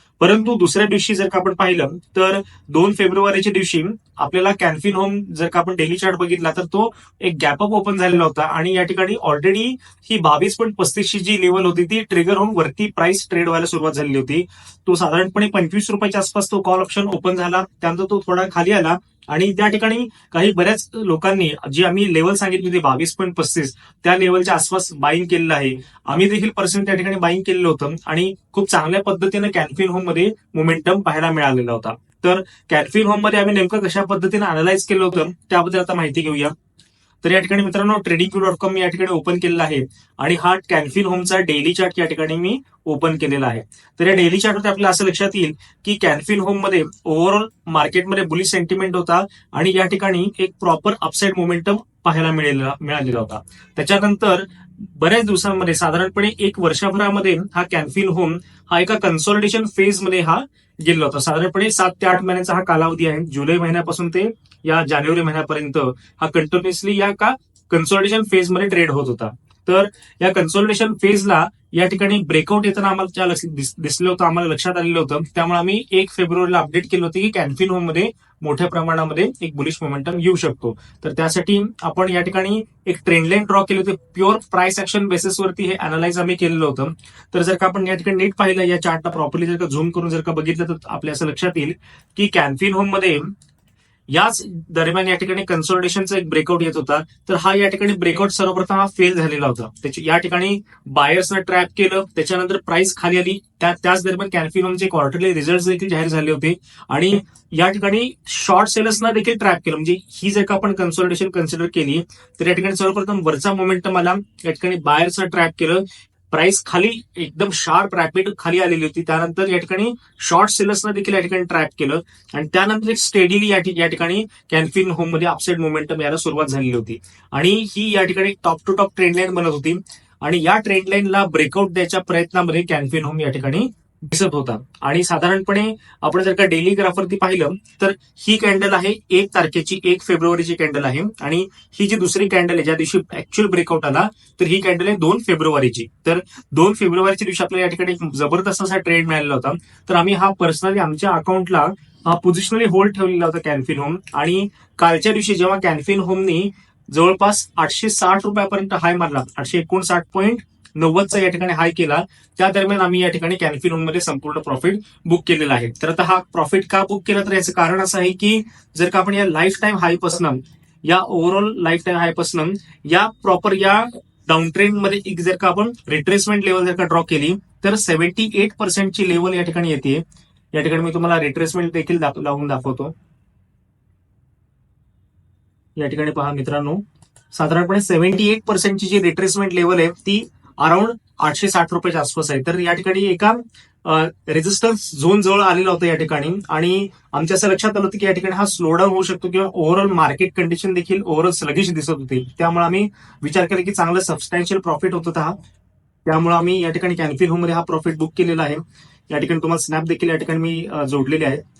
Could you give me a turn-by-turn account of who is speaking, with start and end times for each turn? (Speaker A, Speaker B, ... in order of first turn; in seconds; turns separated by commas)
Speaker A: 0.2-36.5, Speaker A: 37.2-93.3, Speaker A: 94.1-182.9, Speaker A: 185.8-205.4, Speaker A: 206.1-211.4